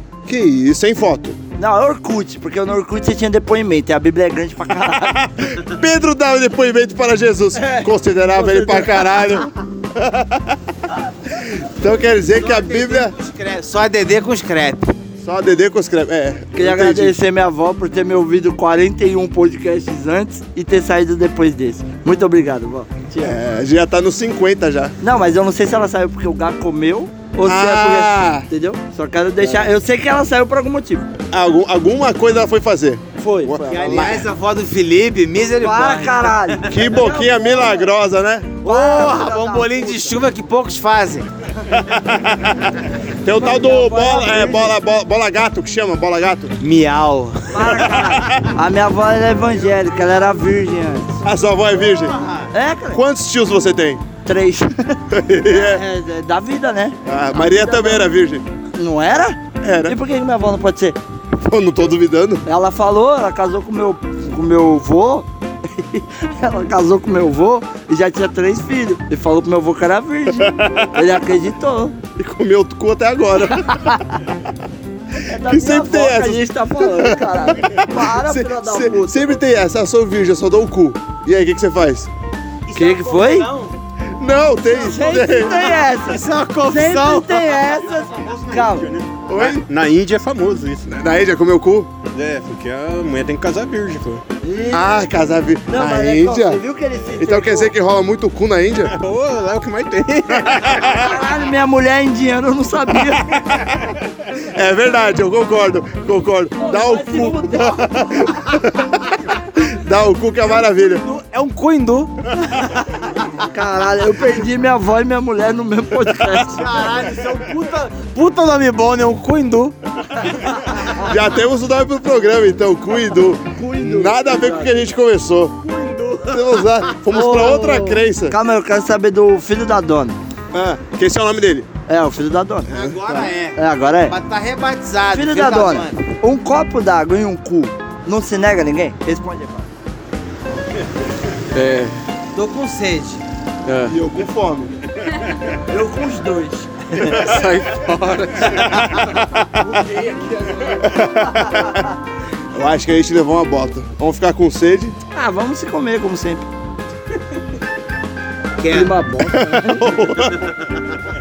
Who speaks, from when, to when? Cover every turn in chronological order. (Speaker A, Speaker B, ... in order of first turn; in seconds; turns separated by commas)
Speaker A: 0.3-1.4, Speaker B: 1.6-5.2, Speaker A: 5.2-10.6, Speaker B: 7.6-9.3, Speaker A: 11.3-13.1, Speaker C: 12.3-14.9, Speaker A: 15.2-17.2, Speaker B: 16.6-23.4, Speaker A: 23.2-24.9, Speaker B: 25.0-31.1, Speaker A: 27.4-28.5, Speaker A: 31.3-34.3, Speaker B: 33.2-34.2, Speaker C: 33.7-36.8, Speaker B: 35.6-37.9, Speaker A: 36.7-38.6, Speaker B: 38.6-40.1, Speaker C: 38.6-41.3, Speaker A: 41.7-46.6, Speaker B: 43.3-44.8, Speaker C: 46.6-47.7, Speaker B: 47.5-51.2, Speaker A: 47.7-48.5, Speaker A: 51.2-52.2, Speaker C: 52.0-52.5, Speaker B: 52.5-53.0, Speaker A: 52.9-54.0, Speaker B: 54.2-58.1, Speaker A: 55.1-55.8, Speaker A: 57.1-58.5, Speaker B: 58.8-61.0, Speaker A: 59.6-60.0, Speaker A: 61.4-62.4, Speaker B: 62.5-72.0, Speaker A: 70.4-71.1, Speaker A: 72.2-74.0, Speaker B: 73.7-74.0, Speaker B: 75.3-79.3, Speaker A: 75.4-82.1, Speaker C: 82.7-83.7, Speaker B: 82.8-83.5, Speaker A: 84.2-85.9, Speaker B: 84.6-88.9, Speaker C: 86.0-87.6, Speaker D: 88.0-91.0, Speaker A: 89.3-89.7, Speaker A: 90.9-91.9, Speaker D: 92.1-94.2, Speaker B: 94.4-95.0, Speaker A: 94.7-96.6, Speaker B: 95.7-97.7, Speaker A: 97.2-98.9, Speaker D: 98.9-100.8, Speaker A: 100.3-100.9, Speaker B: 100.8-103.4, Speaker A: 103.3-103.8, Speaker A: 104.5-111.0, Speaker B: 106.6-108.2, Speaker C: 110.4-113.0, Speaker B: 113.5-116.7, Speaker C: 116.5-119.8, Speaker A: 121.0-125.6, Speaker B: 123.6-124.8, Speaker C: 125.6-126.8, Speaker A: 126.3-128.4, Speaker B: 127.1-130.2, Speaker A: 130.5-131.7, Speaker B: 131.9-132.7, Speaker C: 132.7-136.0, Speaker A: 132.7-133.3, Speaker B: 133.6-134.2, Speaker B: 135.1-139.7, Speaker E: 141.5-141.9, Speaker C: 142.3-143.2, Speaker E: 143.7-143.9, Speaker A: 143.9-144.7, Speaker B: 145.7-147.2, Speaker E: 147.1-148.7, Speaker A: 148.6-149.4, Speaker E: 149.8-150.5, Speaker A: 150.8-151.8, Speaker B: 151.5-151.8, Speaker A: 152.5-154.9, Speaker B: 155.1-156.5, Speaker C: 158.6-158.9, Speaker B: 158.7-159.9, Speaker A: 159.3-160.5